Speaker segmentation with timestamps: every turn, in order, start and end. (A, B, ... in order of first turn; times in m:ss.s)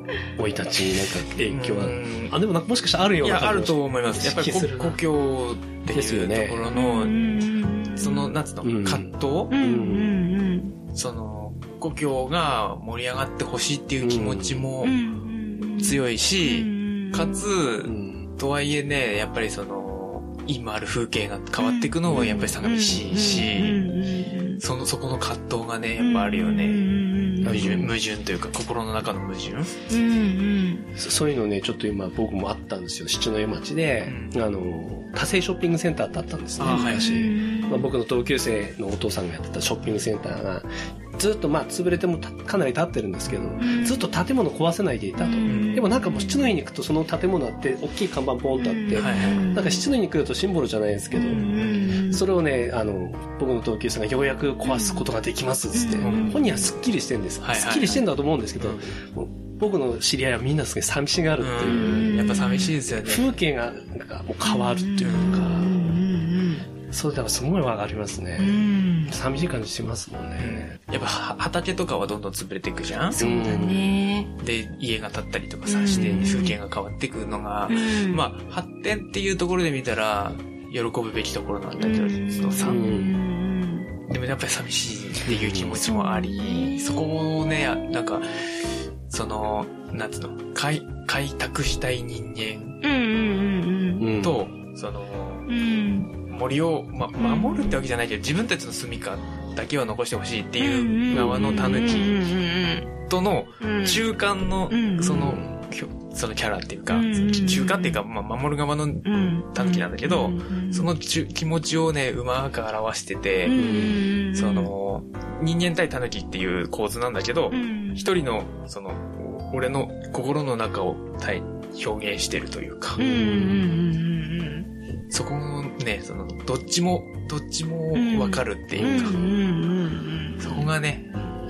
0:00.4-0:05.0 A
0:01.5-0:02.4 B
0:03.2-0:07.4 B
0:05.9-0:06.6 A
0:06.7-0:08.3 C
0:08.0-0:09.5 B
0:08.6-0:10.1 A
0:09.5-0:10.8 C
0:10.9-0:15.0 B
0:14.0-0:14.7 A
0:14.8-0:17.5 C
0:15.8-0:23.9 B
0:17.8-0:18.3 A
0:21.6-0:24.6 C
0:22.1-0:22.6 A
0:24.6-0:29.7 B
0:26.0-0:27.8 C
0:27.4-0:28.0 A
0:29.9-0:30.9 C
0:31.0-1:02.3 A
0:34.0-0:34.4 B
0:36.6-0:37.2 B
0:36.6-0:37.9 C
0:43.3-0:43.6 B
0:43.6-0:44.0 C
0:45.2-0:46.5 C
0:45.5-0:45.8 B
0:48.6-0:49.9 C
0:49.0-0:49.5 B
0:51.1-0:52.2 C
0:51.3-0:51.9 B
0:54.6-0:55.1 C
0:55.7-0:56.7 C
0:56.0-0:56.4 B
0:57.4-0:58.0 B
0:58.6-0:58.9 B
1:01.4-1:03.4 B
1:01.7-1:02.8 C
1:02.9-1:05.9 A
1:04.4-1:06.7 C
1:05.0-1:05.4 B
1:06.9-1:10.7 A
1:08.4-1:09.2 C
1:10.4-1:13.2 B
1:13.2-1:14.3 C
1:13.2-1:13.9 A
1:14.4-1:22.9 B
1:15.7-1:16.6 C
1:15.9-1:16.4 A
1:17.7-1:18.2 C
1:21.8-1:23.9 C
1:22.6-1:23.2 A
1:24.1-1:32.8 B
1:25.3-1:25.8 A
1:25.8-1:27.1 C
1:32.8-1:34.1 C
1:34.0-1:34.4 A
1:34.2-1:35.5 B
1:35.5-1:36.1 C
1:36.3-1:42.2 B
1:37.2-1:37.8 C
1:40.6-1:42.9 C
1:41.1-1:41.7 A
1:43.1-1:53.6 B
1:43.6-1:44.0 C
1:44.7-1:45.4 C
1:45.2-1:45.5 A
1:46.9-1:48.0 C
1:49.0-1:50.9 C
1:53.5-1:54.7 C
1:53.6-1:54.0 A
1:54.3-2:03.0 B
1:57.5-1:58.1 C
2:03.0-2:03.8 A
2:03.0-2:04.7 C
2:05.1-2:09.2 B
2:07.9-2:10.7 C
2:08.8-2:09.2 A
2:10.4-2:11.1 B